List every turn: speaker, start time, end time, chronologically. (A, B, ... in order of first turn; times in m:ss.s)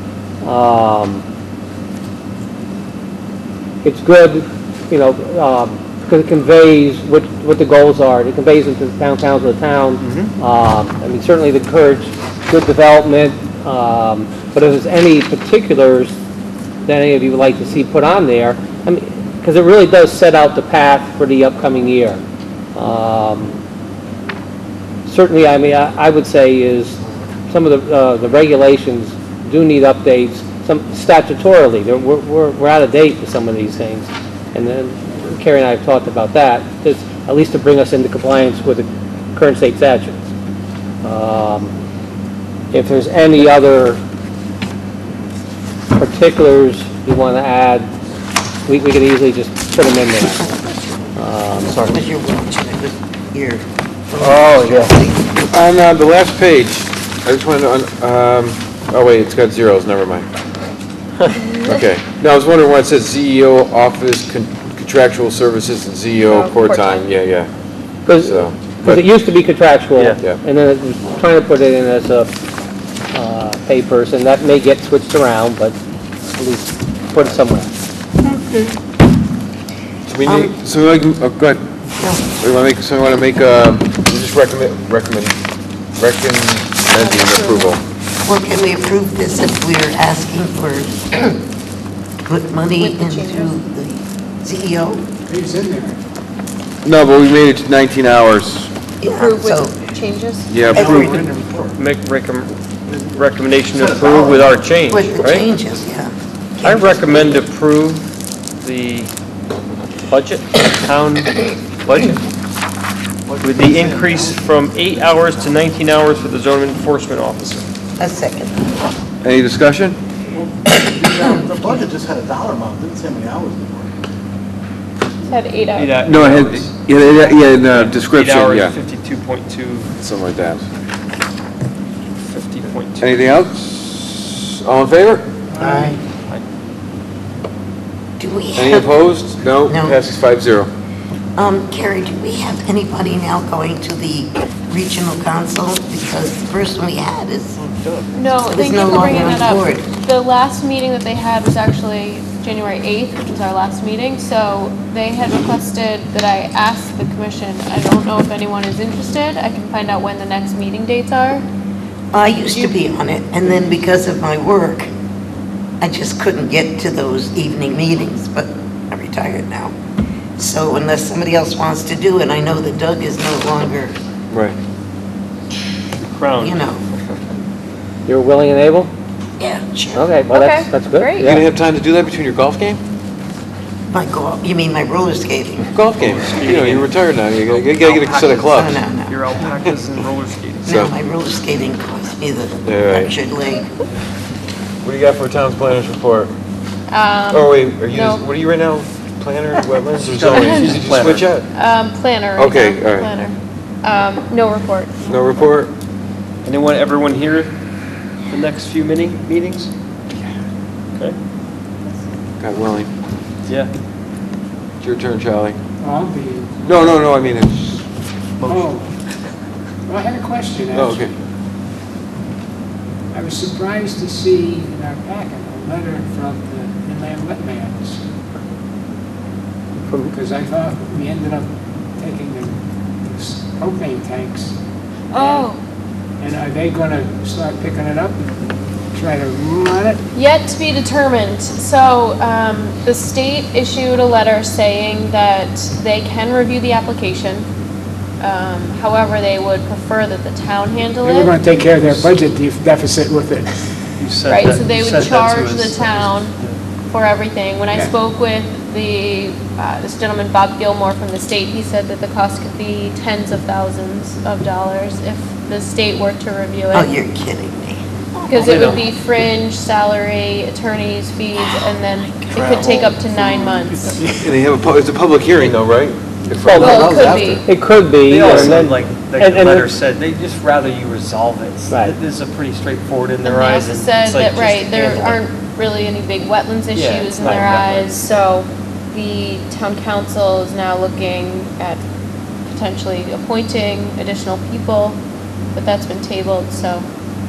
0:00.4-0:01.2 A
0:03.8-0:16.2 A
0:10.0-0:10.3 B
0:16.8-0:22.2 A
0:22.8-0:23.5 A
0:25.0-0:40.2 A
0:41.0-0:41.7 A
0:42.7-0:44.0 A
0:46.0-0:47.9 A
0:48.7-0:50.5 A
0:51.2-0:52.1 A
0:51.8-0:55.4 C
0:54.2-0:55.0 A
0:55.5-1:00.3 D
1:01.6-1:07.5 D
1:06.2-1:07.0 E
1:08.1-1:12.3 A
1:08.1-1:09.0 D
1:10.0-1:10.2 B
1:13.1-1:15.8 A
1:16.3-1:17.7 A
1:18.2-1:18.7 C
1:20.1-1:21.6 D
1:20.2-1:20.6 C
1:22.0-1:22.2 C
1:22.2-1:25.4 D
1:26.0-1:27.8 D
1:26.9-1:27.8 E
1:28.2-1:31.4 C
1:32.3-1:35.0 C
1:32.8-1:33.6 E
1:35.3-1:36.0 F
1:36.8-1:38.7 D
1:39.0-1:39.8 C
1:39.1-1:40.6 E
1:40.5-1:40.9 D
1:40.7-1:41.2 C
1:40.7-1:41.8 G
1:40.8-1:41.2 B
1:41.8-1:42.6 B
1:42.9-1:44.6 G
1:43.2-1:45.5 B
1:44.9-1:47.4 C
1:46.6-1:48.1 B
1:48.6-1:49.1 B
1:50.1-1:52.2 B
1:53.3-1:55.7 G
1:53.4-1:57.7 B
1:58.0-1:58.5 C
1:59.2-2:00.0 D
2:00.3-2:04.0 G
2:05.2-2:06.0 E
2:05.8-2:09.9 B
2:06.0-2:08.8 D
2:10.0-2:10.7 D
2:12.2-2:13.4 B
2:13.0-2:15.7 D
2:15.5-2:16.0 F
2:15.6-2:16.0 C
2:18.2-2:19.0 C
2:18.6-2:20.7 D
2:19.6-2:20.0 C
2:21.4-2:27.6 C
2:27.6-2:28.2 B
2:28.1-2:41.4 E
2:28.5-2:29.9 C
2:42.1-2:44.9 C
2:45.8-2:49.7 C
2:50.4-2:54.0 C
2:54.3-2:54.6 D
2:56.0-2:57.2 B
2:56.4-2:56.8 C
2:58.1-2:58.9 A
2:59.4-3:00.1 C
3:00.0-3:01.4 A
3:00.3-3:01.4 E
3:01.2-3:02.8 D
3:03.9-3:05.7 C
3:05.7-3:08.8 D
3:06.0-3:10.7 B
3:08.5-3:09.2 C
3:10.6-3:13.7 C
3:10.7-3:10.9 D
3:12.6-3:13.1 D
3:14.8-3:16.3 D
3:16.9-3:18.2 E
3:17.3-3:21.5 D
3:20.0-3:21.3 B
3:20.3-3:20.8 E
3:21.4-3:25.1 E
3:22.4-3:23.1 D
3:25.0-3:25.7 D
3:26.4-3:27.6 B
3:28.3-3:29.7 B
3:32.4-3:32.9 D
3:34.8-3:35.6 D
3:35.8-3:36.9 F
3:36.6-3:37.8 D
3:38.4-3:38.7 B
3:38.5-3:38.8 F
3:39.9-3:41.0 F
3:40.7-3:41.1 D
3:43.1-3:48.0 F
3:49.9-3:50.1 A
3:50.1-3:51.5 F
3:52.0-3:52.5 F
3:53.0-3:54.6 F
3:55.2-3:55.5 E
3:56.2-3:58.3 F
3:58.9-4:00.0 F
4:00.2-4:07.5 E
4:08.2-4:11.4 E
4:11.1-4:13.9 F
4:11.4-4:12.1 B
4:14.0-4:16.6 B
4:14.3-4:16.4 E
4:16.9-4:26.9 E
4:26.7-4:28.8 C
4:28.3-4:34.2 E
4:28.4-4:28.9 B
4:32.5-4:33.6 B
4:34.2-4:37.4 D
4:36.4-4:39.7 A
4:36.5-4:37.4 E
4:38.0-4:45.2 B
4:38.3-4:38.6 D
4:41.7-4:42.0 A
4:43.2-4:51.8 E
4:46.7-4:48.0 B
4:52.5-4:55.0 E
4:55.6-4:56.8 E